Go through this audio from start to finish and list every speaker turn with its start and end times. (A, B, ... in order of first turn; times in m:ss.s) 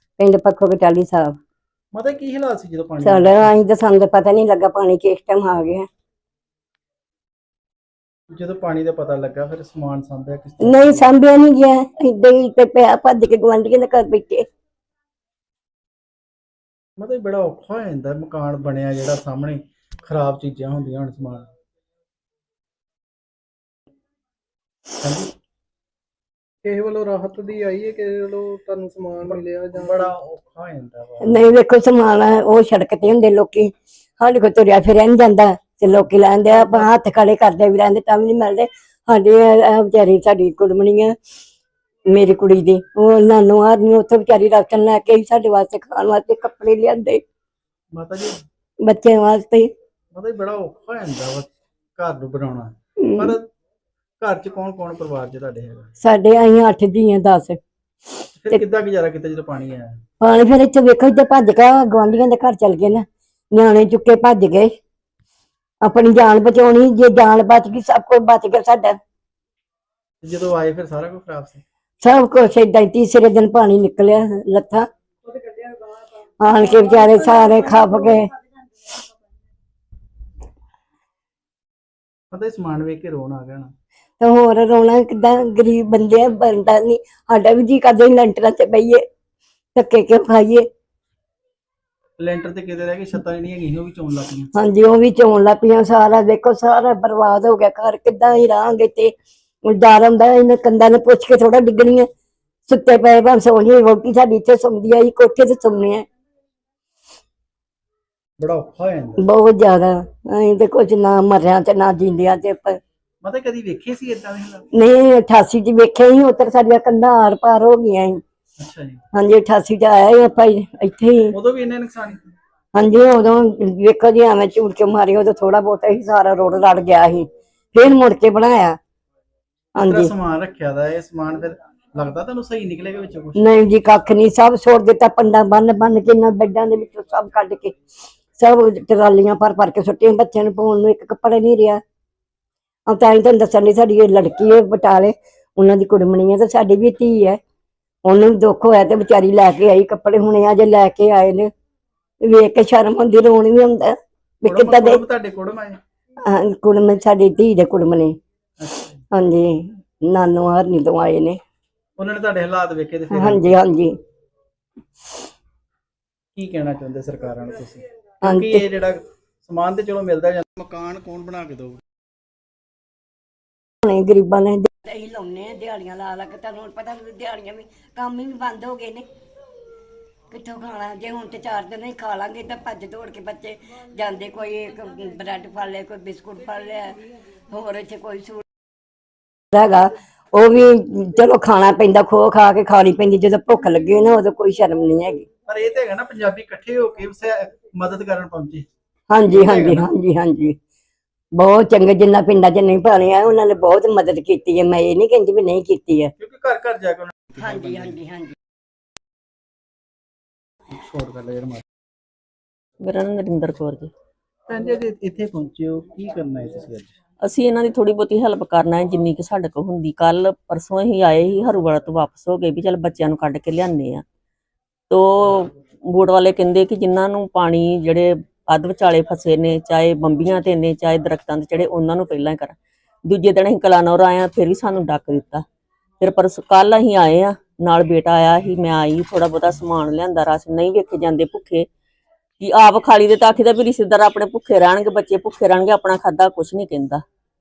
0:00.2-0:01.4 A
0:01.9-0:03.5 B
0:03.0-0:05.8 A
0:08.3-0:11.1 B
0:10.6-0:14.4 A
0:17.0-0:21.5 B
0:25.0-0:25.3 B
0:26.6-0:30.1 C
0:29.2-0:31.5 B
0:31.2-0:41.1 A
0:36.5-0:36.9 B
0:42.1-0:47.2 A
0:47.9-0:48.3 B
0:48.8-0:49.7 A
0:50.1-0:53.4 B
0:53.0-0:53.3 A
0:54.2-0:55.9 B
0:56.0-0:57.6 A
0:58.4-1:00.0 B
1:00.2-1:04.7 A
1:05.8-1:09.0 A
1:10.2-1:11.6 B
1:12.0-1:14.8 A
1:16.4-1:18.3 A
1:16.7-1:18.0 C
1:22.3-1:23.7 B
1:24.2-1:29.0 A
1:29.7-1:30.6 A
1:32.2-1:34.5 B
1:34.5-1:39.1 A
1:39.6-1:42.1 A
1:42.7-1:46.0 A
1:48.4-1:49.2 B
1:49.2-1:52.8 A
1:53.2-1:54.7 B
1:54.7-1:58.2 A
1:58.6-1:59.0 B
1:59.1-2:01.3 A
2:01.3-2:02.2 B
2:02.7-2:08.8 A
2:09.8-2:10.1 A
2:09.8-2:13.5 B
2:13.4-2:17.7 A
2:18.4-2:21.8 A
2:22.9-2:27.4 A
2:28.0-2:31.5 A
2:32.2-2:35.0 A
2:34.4-2:35.8 B
2:36.2-2:38.1 A
2:38.6-2:39.0 B
2:39.1-2:41.4 A
2:42.0-2:43.6 B
2:43.1-2:43.9 A
2:46.3-2:51.8 B
2:48.2-2:48.6 A
2:53.8-2:59.0 A
3:00.3-3:08.4 A
3:09.5-3:15.2 A
3:15.5-3:18.7 B
3:19.1-3:20.6 A
3:19.3-3:19.9 B
3:21.4-3:26.1 A
3:26.2-3:28.0 B
3:27.4-3:28.3 A
3:30.7-3:31.6 B
3:32.8-3:33.9 D
3:34.5-3:36.9 B
3:37.2-3:44.0 D
3:44.9-3:52.5 D
3:53.1-3:55.4 D
3:56.0-4:01.7 D
4:02.4-4:07.0 D